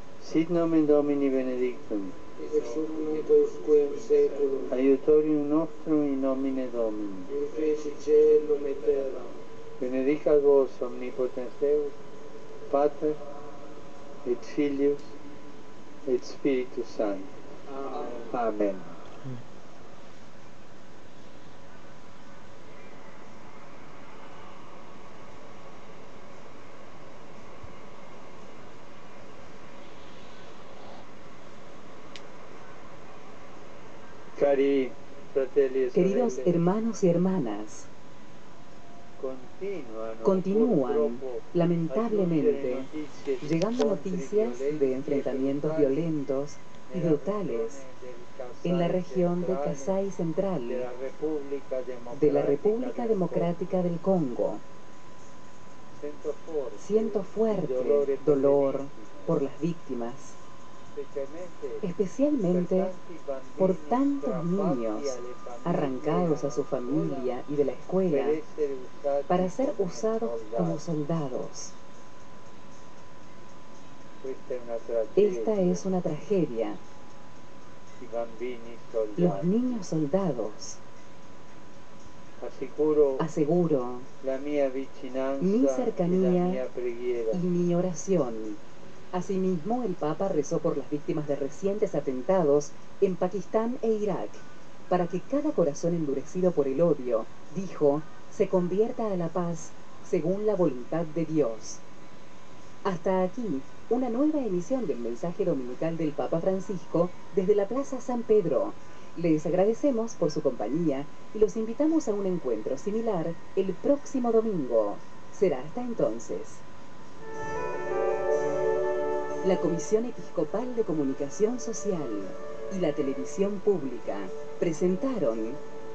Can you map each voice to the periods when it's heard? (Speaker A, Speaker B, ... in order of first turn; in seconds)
Speaker A: 0.2-2.2, 4.7-7.3, 9.8-11.9, 12.7-13.2, 14.2-15.1, 16.1-17.3, 18.3-19.0, 34.3-36.6, 39.2-46.1, 46.9-50.0, 50.6-53.5, 56.0-59.4, 60.9-61.9, 62.5-67.3, 68.1-70.8, 74.2-75.8, 78.0-79.8, 82.4-83.3, 84.2-87.4
Speaker B: 2.4-4.7, 7.3-9.4, 17.7-18.3
Speaker C: 35.9-37.9, 40.2-42.9, 43.4-47.8, 48.6-50.9, 52.1-54.6, 56.8-60.4, 61.8-62.9, 63.6-68.4, 69.3-71.7, 75.2-76.8, 79.2-80.8, 83.2-84.1, 85.4-86.6, 87.3-88.6, 89.1-101.8, 102.8-116.6, 119.4-125.6